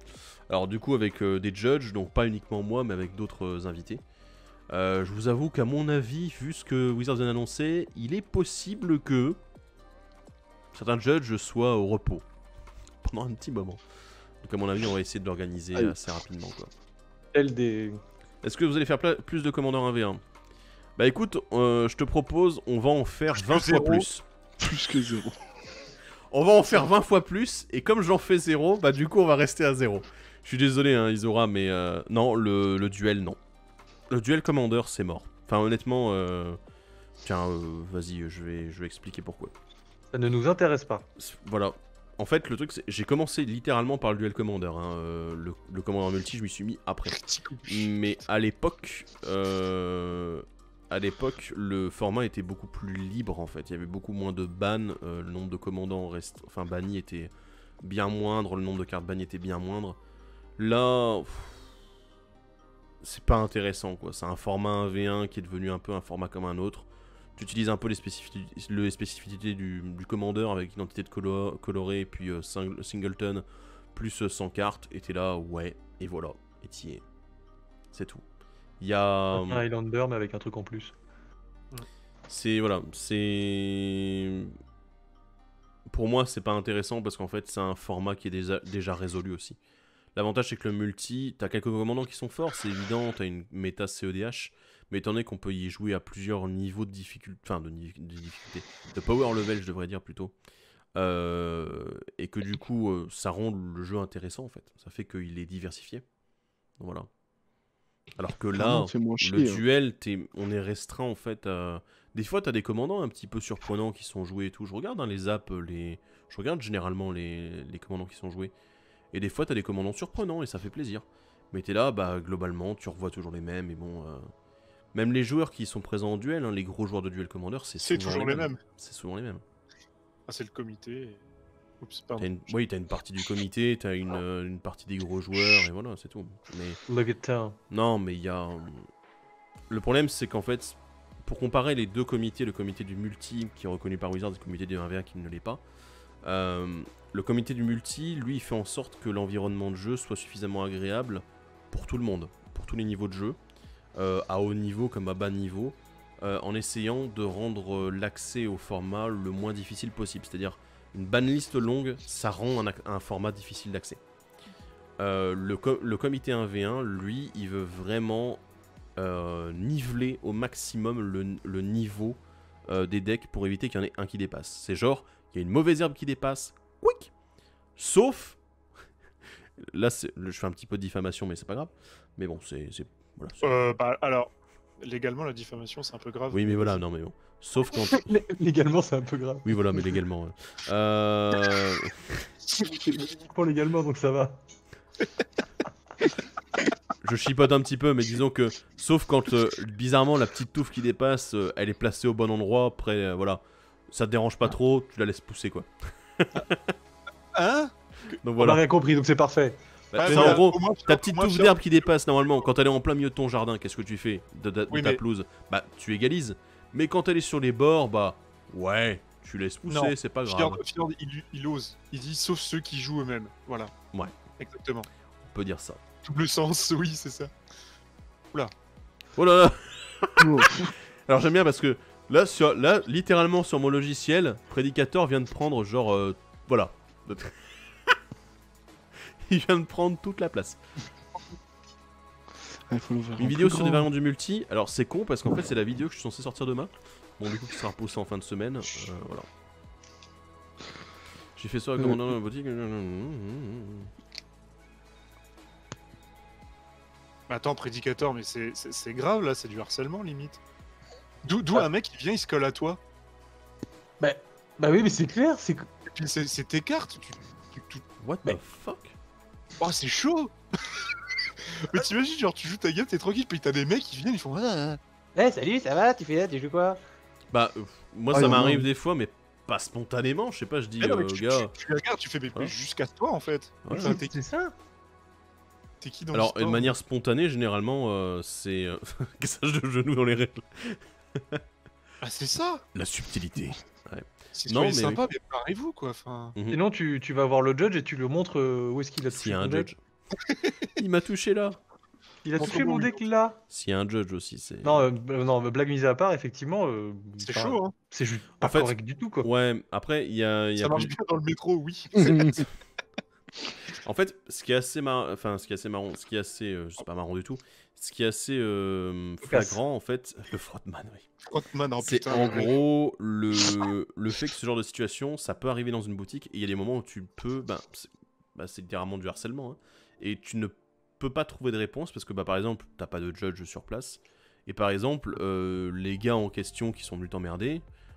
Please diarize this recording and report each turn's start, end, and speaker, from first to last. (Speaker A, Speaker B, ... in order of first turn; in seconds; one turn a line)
Speaker A: 0.5-4.0
Speaker A: 4.7-9.4
Speaker A: 10.7-12.2
Speaker A: 13.0-13.8
Speaker A: 14.4-16.7
Speaker B: 17.3-18.0
Speaker A: 18.4-20.2
Speaker A: 21.0-24.2
Speaker C: 23.3-24.1
Speaker D: 24.6-25.4
Speaker A: 26.3-33.4
Speaker A: 34.1-36.6
Speaker A: 37.2-39.5
Speaker B: 40.1-41.0
Speaker A: 41.2-60.0
Speaker C: 47.1-47.9
Speaker A: 60.6-61.7
Speaker A: 63.0-77.0
Speaker A: 77.9-78.2
Speaker A: 78.8-79.6
Speaker B: 79.3-80.9
Speaker A: 82.3-84.6
Speaker A: 85.9-89.6
Speaker A: 90.1-100.3
Speaker A: 101.0-106.0
Speaker A: 106.8-107.1
Speaker A: 108.2-118.5
Speaker D: 108.5-109.6
Speaker A: 119.1-124.3
Speaker A: 124.9-129.4
Speaker C: 127.8-128.6
Speaker C: 130.3-131.2
Speaker C: 131.8-132.3
Speaker A: 132.2-136.8
Speaker B: 136.9-137.6
Speaker A: 137.7-138.9
Speaker A: 139.7-145.6
Speaker A: 146.2-153.4
Speaker A: 153.9-164.0
Speaker A: 165.0-168.4
Speaker A: 168.9-177.1
Speaker A: 177.8-178.4
Speaker A: 179.6-183.8
Speaker C: 183.4-186.8
Speaker A: 186.3-188.1
Speaker B: 187.9-189.9
Speaker A: 189.4-192.3
Speaker B: 192.9-194.4
Speaker A: 197.0-206.7
Speaker C: 207.3-207.7
Speaker A: 208.2-208.6
Speaker B: 208.4-210.4
Speaker A: 209.9-220.6
Speaker C: 210.0-211.9
Speaker C: 214.7-215.0
Speaker C: 219.7-223.7
Speaker C: 224.4-224.9
Speaker A: 225.3-225.8
Speaker C: 226.0-227.3
Speaker A: 229.2-238.0
Speaker D: 230.2-230.7
Speaker A: 239.2-240.6
Speaker D: 242.7-243.9
Speaker A: 243.2-249.3
Speaker A: 251.3-253.9
Speaker C: 257.3-260.4
Speaker C: 261.2-262.8
Speaker B: 264.0-265.7
Speaker C: 265.9-267.9
Speaker A: 268.0-269.0
Speaker C: 269.6-270.8
Speaker C: 271.4-274.8
Speaker B: 275.1-276.8
Speaker A: 277.3-281.5
Speaker D: 278.1-278.7
Speaker C: 280.8-284.1
Speaker A: 283.6-283.9
Speaker B: 283.7-284.5
Speaker C: 285.8-286.7
Speaker A: 286.1-291.4
Speaker C: 292.0-292.6
Speaker A: 292.7-295.0
Speaker C: 294.3-296.4
Speaker B: 296.5-299.7
Speaker A: 299.1-299.8
Speaker C: 300.3-300.5
Speaker A: 300.8-301.6
Speaker B: 302.2-303.4
Speaker C: 302.4-303.0
Speaker A: 303.5-304.9
Speaker B: 304.6-309.3
Speaker C: 307.2-307.7
Speaker A: 308.4-310.9
Speaker C: 310.6-312.4
Speaker D: 312.0-312.2
Speaker A: 313.8-321.1
Speaker B: 319.2-319.6
Speaker C: 321.2-322.5
Speaker A: 321.8-337.6